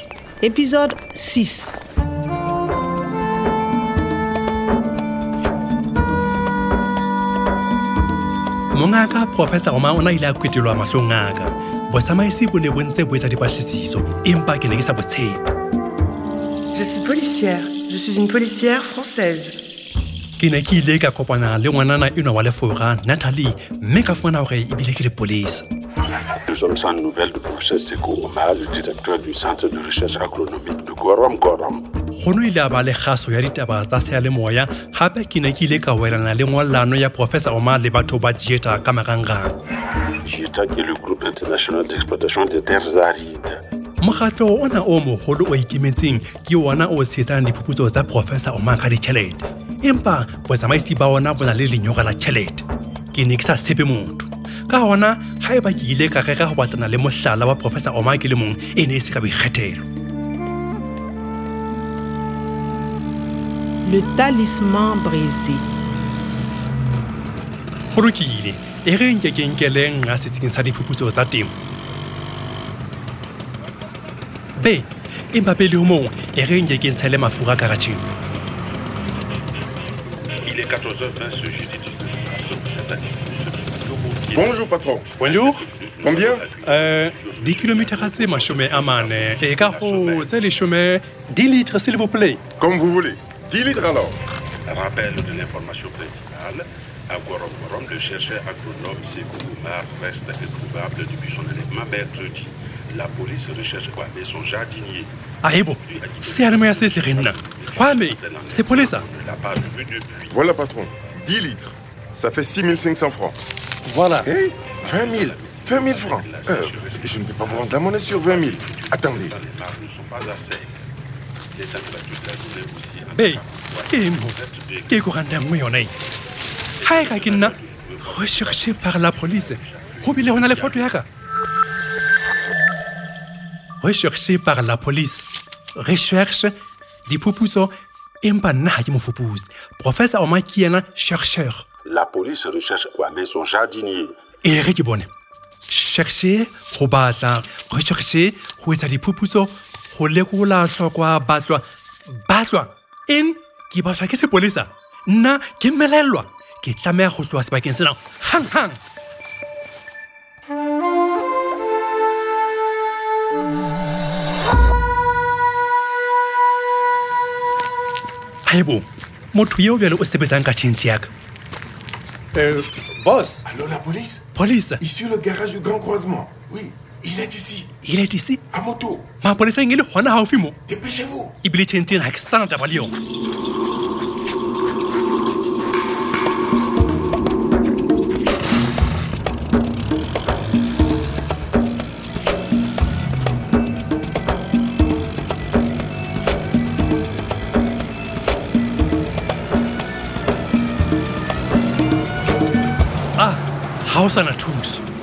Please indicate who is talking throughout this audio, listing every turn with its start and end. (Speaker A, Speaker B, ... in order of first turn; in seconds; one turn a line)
Speaker A: 0.4-1.8
Speaker B: 8.7-15.4
Speaker C: 16.7-19.5
Speaker B: 20.4-25.6
Speaker D: 26.4-31.8
Speaker B: 32.1-39.5
Speaker D: 40.2-43.6
Speaker B: 44.0-59.9
Speaker A: 63.8-65.6
Speaker B: 67.9-71.5
Speaker B: 74.6-78.1
Speaker D: 80.4-84.5
Speaker E: 84.3-85.1
Speaker B: 85.2-85.6
Speaker D: 85.2-90.3
Speaker E: 86.0-86.4
Speaker B: 86.6-92.4
Speaker E: 92.6-94.2
Speaker D: 94.7-105.1
Speaker B: 105.4-109.0
Speaker D: 105.8-110.3
Speaker E: 110.3-113.3
Speaker B: 113.8-114.3
Speaker E: 114.2-119.3
Speaker D: 114.9-120.8
Speaker D: 121.5-124.9
Speaker B: 123.1-124.4
Speaker B: 124.9-125.9
Speaker D: 126.8-128.6
Speaker B: 126.8-131.1
Speaker D: 129.6-130.8
Speaker B: 133.8-136.5
Speaker B: 137.1-141.6
Speaker D: 141.8-144.2
Speaker B: 144.4-145.1
Speaker B: 145.7-151.6
Speaker B: 152.2-158.8
Speaker B: 168.4-171.1
Speaker B: 172.3-173.4
Speaker E: 173.4-174.2
Speaker B: 174.3-174.8
Speaker E: 174.8-177.7
Speaker B: 177.8-178.4
Speaker E: 178.5-179.1
Speaker B: 179.2-180.6
Speaker E: 180.7-181.3
Speaker B: 181.4-182.9
Speaker B: 203.2-204.8